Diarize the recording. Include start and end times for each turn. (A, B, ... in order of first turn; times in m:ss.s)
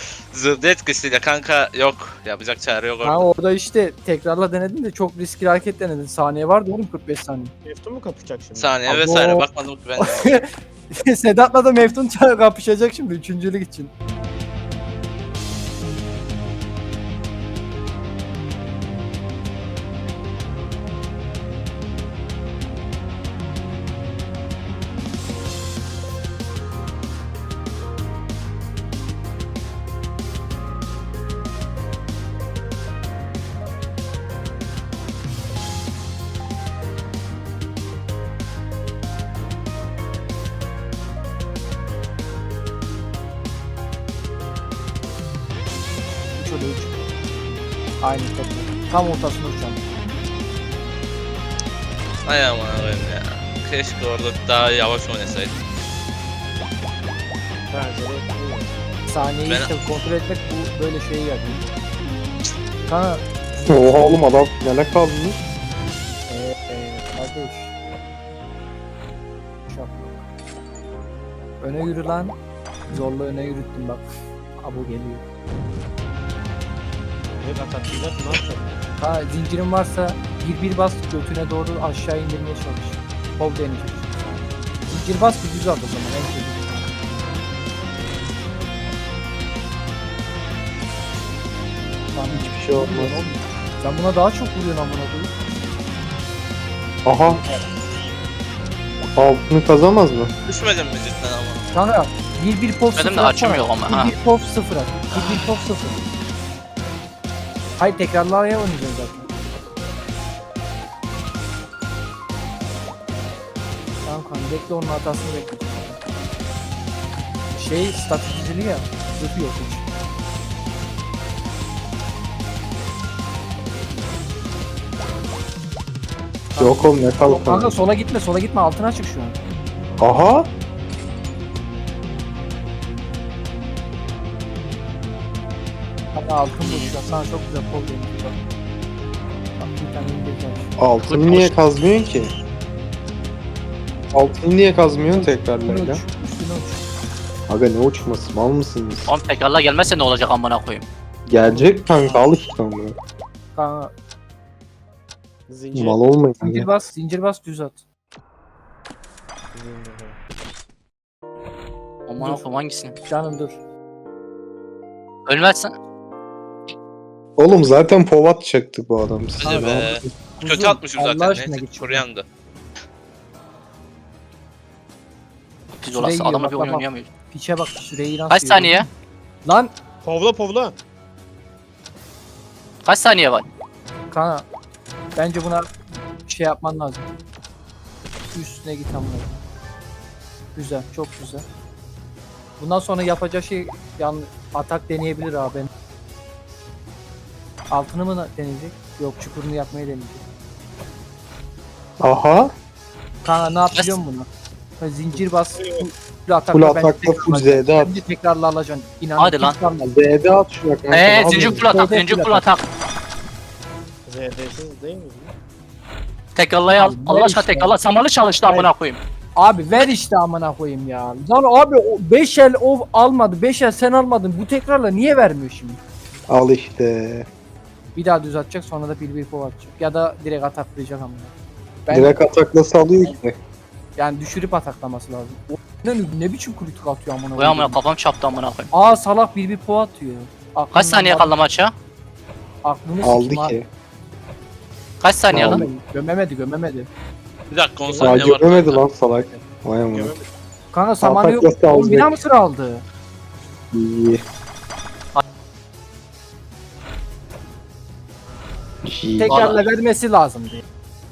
0:00.3-0:03.2 A
0:03.0-0:07.5 B
0:07.6-0:08.9 C
0:08.6-0:10.4 A
0:08.9-0:09.4 B
0:10.0-0:13.9 B
0:46.4-0:47.0 B
0:48.0-0:49.8 B
0:52.2-0:55.5 A
0:57.7-0:58.7 C
0:59.0-1:01.7 B
1:02.9-1:04.2 B
1:03.7-1:05.4 D
1:06.3-1:07.7 B
1:09.7-1:10.2 B
1:11.6-1:12.3 B
1:12.9-1:14.1 B
1:14.6-1:15.2 B
1:17.4-1:18.7 C
1:19.0-1:26.9 B
1:32.1-1:35.3 B
1:32.3-1:33.2 D
1:37.0-1:37.4 D
1:39.2-1:40.3 D
1:40.4-1:41.6 A
1:41.7-1:46.0 B
1:43.0-1:44.1 E
1:47.8-1:49.3 B
1:54.0-1:56.0 B
1:57.5-1:59.8 B
2:06.5-2:09.4 B
2:06.6-2:07.8 D
2:10.0-2:10.5 D
2:16.1-2:18.4 B
2:16.6-2:16.9 E
2:19.6-2:20.7 B
2:20.8-2:22.3 D
2:21.0-2:21.5 E
2:24.1-2:26.0 D
2:25.6-2:26.9 B
2:27.5-2:29.1 D
2:29.1-2:30.8 E
2:31.3-2:32.9 D
2:31.4-2:32.2 B
2:33.5-2:33.9 B
2:35.5-2:36.0 C
2:35.7-2:36.7 D
2:36.4-2:37.8 B
2:39.5-2:40.2 C
2:42.1-2:43.0 E
2:42.2-2:42.5 B
2:43.0-2:43.6 B
2:45.2-2:45.7 E
2:47.4-2:49.9 D
2:49.4-2:52.2 A
2:49.4-2:52.0 B
2:55.8-2:57.1 E
2:55.9-2:58.9 B
2:58.3-2:58.9 E
2:59.4-2:59.7 B
3:00.0-3:00.8 C
3:02.8-3:03.4 E
3:04.1-3:04.4 B
3:05.2-3:07.1 B
3:08.3-3:09.4 B
3:10.5-3:11.4 B
3:12.6-3:15.7 B
3:17.7-3:20.2 B
3:22.0-3:22.5 D
3:23.2-3:24.3 B
3:24.8-3:29.9 B
3:25.1-3:25.9 C
3:26.5-3:28.0 D
3:29.2-3:29.6 E
3:29.8-3:31.9 D
3:30.9-3:32.7 E
3:31.3-3:32.5 B
3:34.0-3:35.3 C
3:36.3-3:39.0 E
3:36.8-3:37.8 B
3:39.3-3:45.8 B
3:46.3-3:47.3 D
3:47.9-3:51.3 B
3:51.8-3:52.2 B
3:51.9-3:53.4 D
3:54.0-3:57.8 B
3:57.4-3:58.7 E
3:58.7-4:01.4 B
4:00.7-4:01.7 E
4:02.6-4:03.6 B
4:03.0-4:03.7 D
4:05.0-4:05.6 E
4:05.3-4:06.9 B
4:05.3-4:05.7 D
4:07.5-4:08.8 A
4:07.8-4:08.2 C
4:08.0-4:10.1 D
4:09.9-4:10.3 C
4:10.7-4:12.8 B
4:11.0-4:12.2 D
4:13.7-4:14.2 D
4:18.8-4:19.5 D
4:19.2-4:20.6 B
4:19.2-4:19.6 E